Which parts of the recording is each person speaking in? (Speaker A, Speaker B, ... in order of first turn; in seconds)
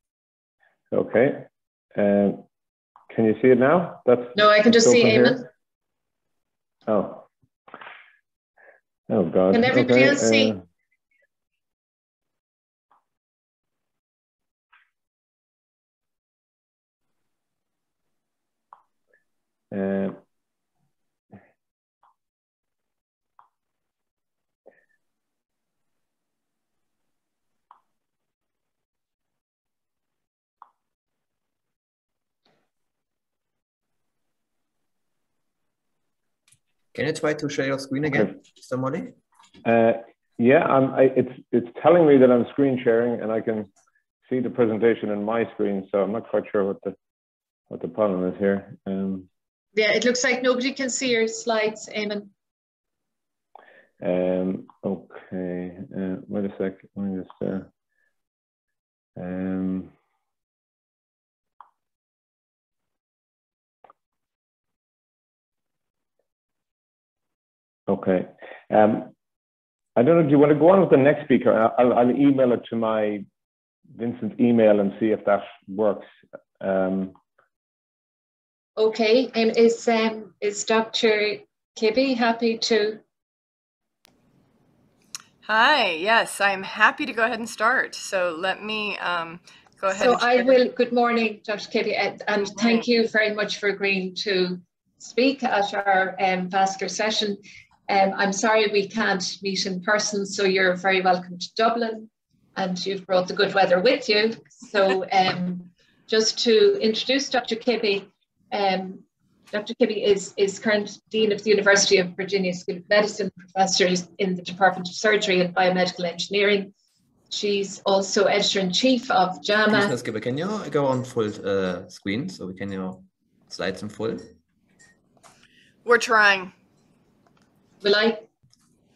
Speaker A: 0.9-2.4, 3.1-5.4, 6.9-7.3, 9.1-10.6, 19.7-20.2, 39.6-43.7, 44.3-47.0, 47.7-49.3, 54.0-57.7, 59.2-59.9, 67.9-69.1, 70.0-73.2, 74.0-76.1, 76.6-77.1
Speaker B: 4.3-5.5, 9.5-10.5, 49.7-52.3, 78.8-83.0, 89.9-116.7, 117.3-119.9, 127.8-128.3
Speaker C: 36.9-39.1, 119.7-124.3
Speaker D: 85.4-90.6, 92.5-92.8, 125.8-126.5